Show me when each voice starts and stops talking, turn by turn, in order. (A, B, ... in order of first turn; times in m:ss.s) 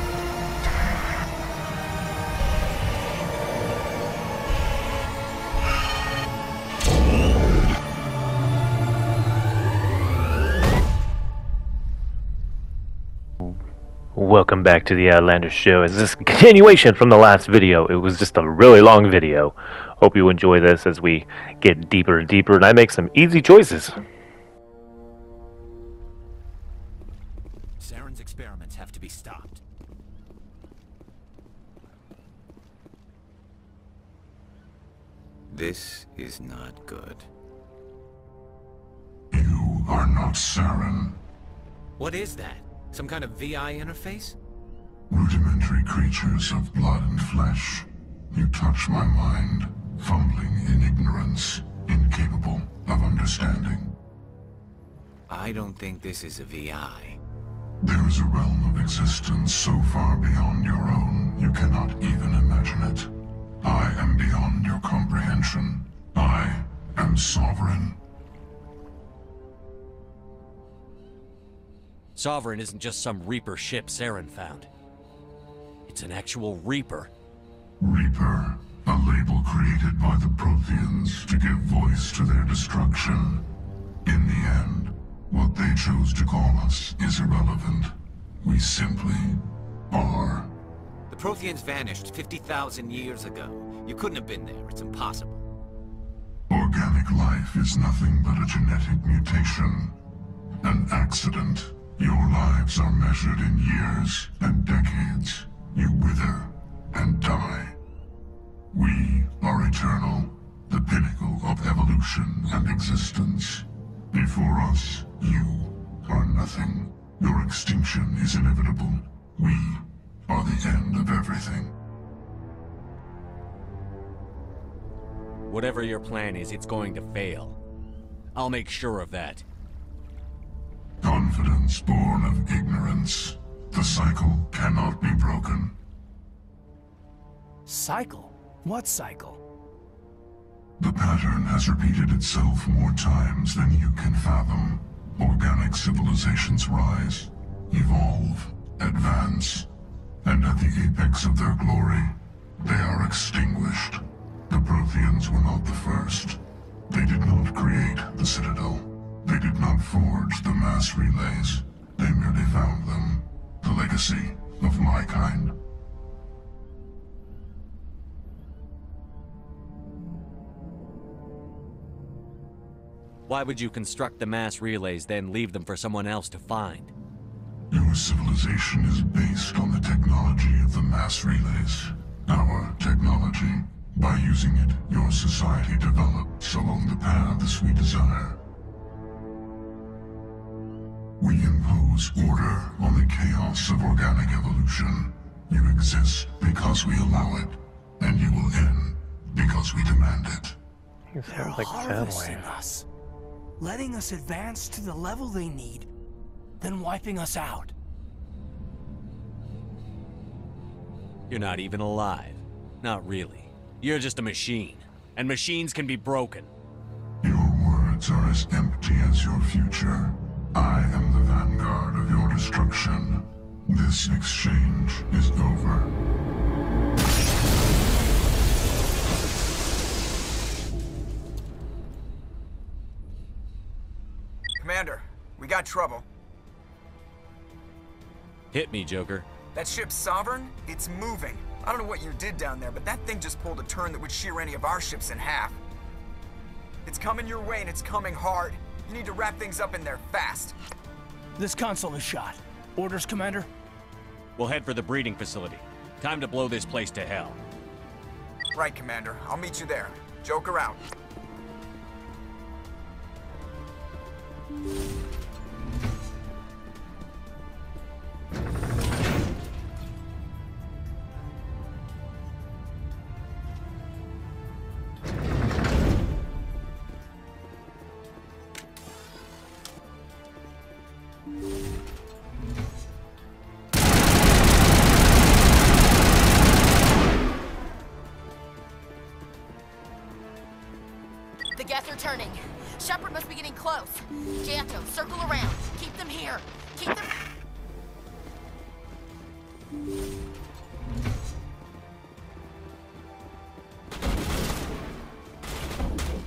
0:14.1-0:24.0 A
0:27.8-0:29.6 B
0:35.5-0:37.3 B
0:39.3-0:41.2 C
0:42.0-0:44.4 B
0:45.1-0:54.0 C
0:55.3-0:57.2 B
0:57.8-1:03.1 C
1:03.6-1:08.0 C
1:12.2-1:14.7 D
1:15.9-1:17.1 D
1:17.8-1:23.5 C
1:24.0-1:30.5 C
1:31.1-1:35.4 B
1:36.5-1:40.0 C
1:40.6-1:47.8 C
1:48.7-2:01.7 C
2:05.5-2:07.6 D
2:08.3-2:09.4 D
2:11.0-2:15.8 C
2:17.6-2:19.4 E
2:20.8-2:29.7 C
2:30.2-2:45.6 C
2:53.3-2:56.9 D
2:57.7-3:08.4 C
3:11.2-3:20.6 C
3:21.1-3:22.6 A
3:21.2-3:22.8 E
3:23.6-3:25.9 E
3:26.6-3:27.7 E
3:31.3-3:36.5 D
3:37.2-3:45.9 C
3:54.6-3:56.0 F
3:58.5-3:59.3 D
3:59.5-4:05.6 F
4:06.8-4:10.5 F
4:11.4-4:13.5 E
4:14.4-4:17.4 D
4:18.5-4:20.8 F
4:51.5-4:57.2 G